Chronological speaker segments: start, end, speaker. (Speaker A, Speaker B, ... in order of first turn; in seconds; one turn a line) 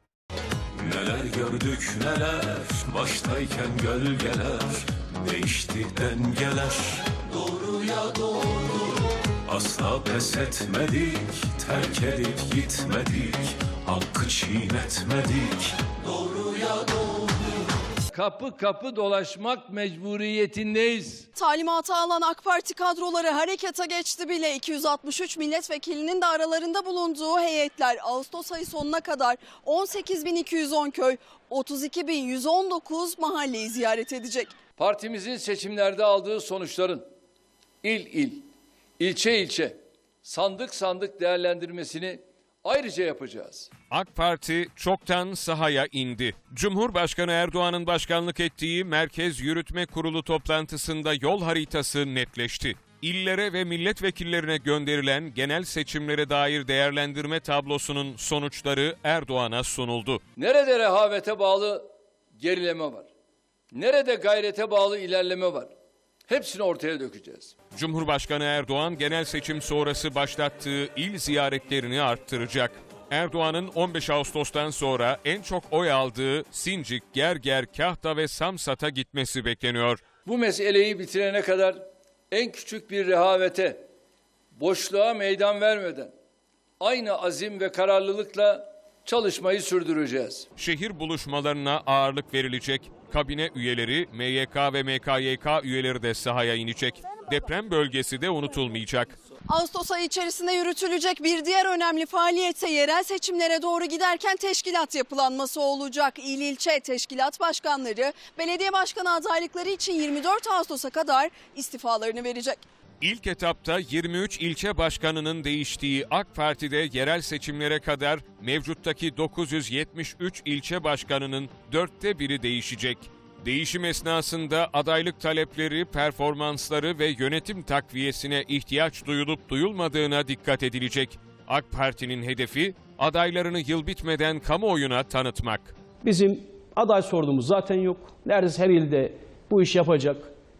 Speaker A: 0.8-8.9
Speaker A: 9.4-17.2
Speaker B: 18.1-21.2
Speaker C: 21.4-34.5
Speaker B: 34.8-37.0
Speaker B: 37.8-38.4
Speaker B: 39.0-39.7
Speaker B: 40.2-42.1
Speaker B: 42.7-43.6
Speaker D: 43.9-60.2
Speaker B: 60.4-61.8
Speaker B: 62.4-63.0
Speaker B: 63.7-65.7
Speaker B: 66.3-67.5
Speaker D: 67.8-80.0
Speaker B: 80.3-81.7
Speaker B: 82.3-83.8
Speaker B: 84.6-86.1
Speaker B: 86.8-90.4
Speaker D: 90.6-99.1
Speaker C: 99.5-112.6
Speaker D: 113.0-135.7
Speaker E: 136.0-140.3